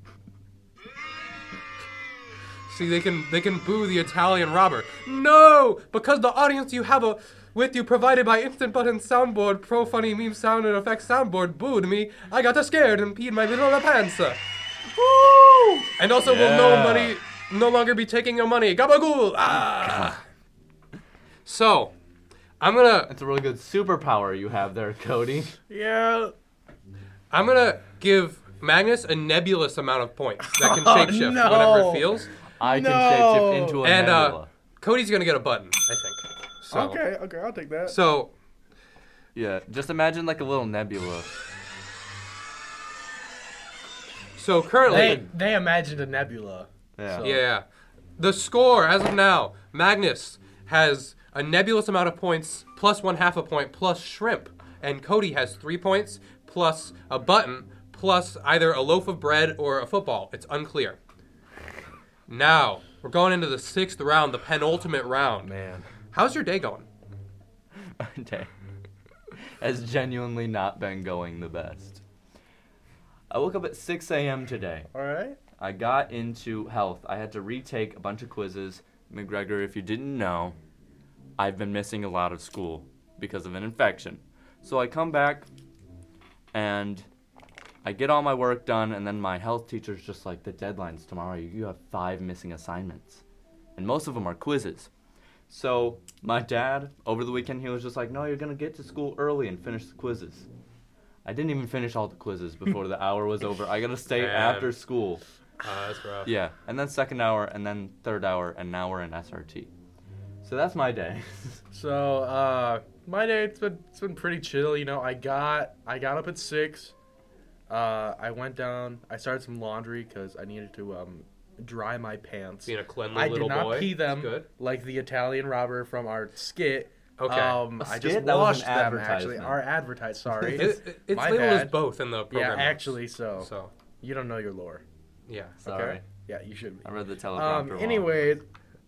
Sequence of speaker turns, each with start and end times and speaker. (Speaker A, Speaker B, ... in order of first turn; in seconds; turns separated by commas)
Speaker A: 2.7-14.4, Speaker B: 14.9-17.2, Speaker A: 16.0-20.2, Speaker A: 21.4-21.9, Speaker A: 22.6-23.1, Speaker B: 23.1-25.6, Speaker C: 25.7-26.3, Speaker A: 27.3-32.3, Speaker C: 30.4-33.8, Speaker B: 32.6-34.5, Speaker A: 33.8-37.0, Speaker C: 36.7-38.0, Speaker A: 37.9-38.3, Speaker B: 39.3-41.3, Speaker A: 44.4-45.3, Speaker C: 44.9-47.4, Speaker B: 44.9-45.2, Speaker B: 47.0-47.4, Speaker A: 47.2-47.6, Speaker A: 48.2-61.0, Speaker A: 62.3-65.5, Speaker C: 65.4-65.9, Speaker A: 66.1-66.9, Speaker B: 68.0-68.5, Speaker B: 69.6-72.0, Speaker B: 73.3-74.9, Speaker C: 74.9-75.4, Speaker B: 75.6-80.6, Speaker B: 81.4-85.5, Speaker B: 86.5-87.1, Speaker B: 87.8-93.2, Speaker B: 93.8-94.9, Speaker B: 95.5-100.5, Speaker B: 101.2-105.2, Speaker A: 104.1-104.8, Speaker A: 105.6-106.3, Speaker B: 106.2-109.7, Speaker B: 110.4-111.6, Speaker C: 111.7-116.9, Speaker C: 117.7-131.8, Speaker A: 122.7-124.5, Speaker A: 127.2-127.6, Speaker B: 127.8-129.6, Speaker B: 130.3-130.7, Speaker A: 130.6-133.7, Speaker C: 132.3-133.5, Speaker C: 134.0-134.8, Speaker A: 135.3-135.6, Speaker C: 135.6-138.4, Speaker B: 135.6-136.0, Speaker B: 136.8-138.1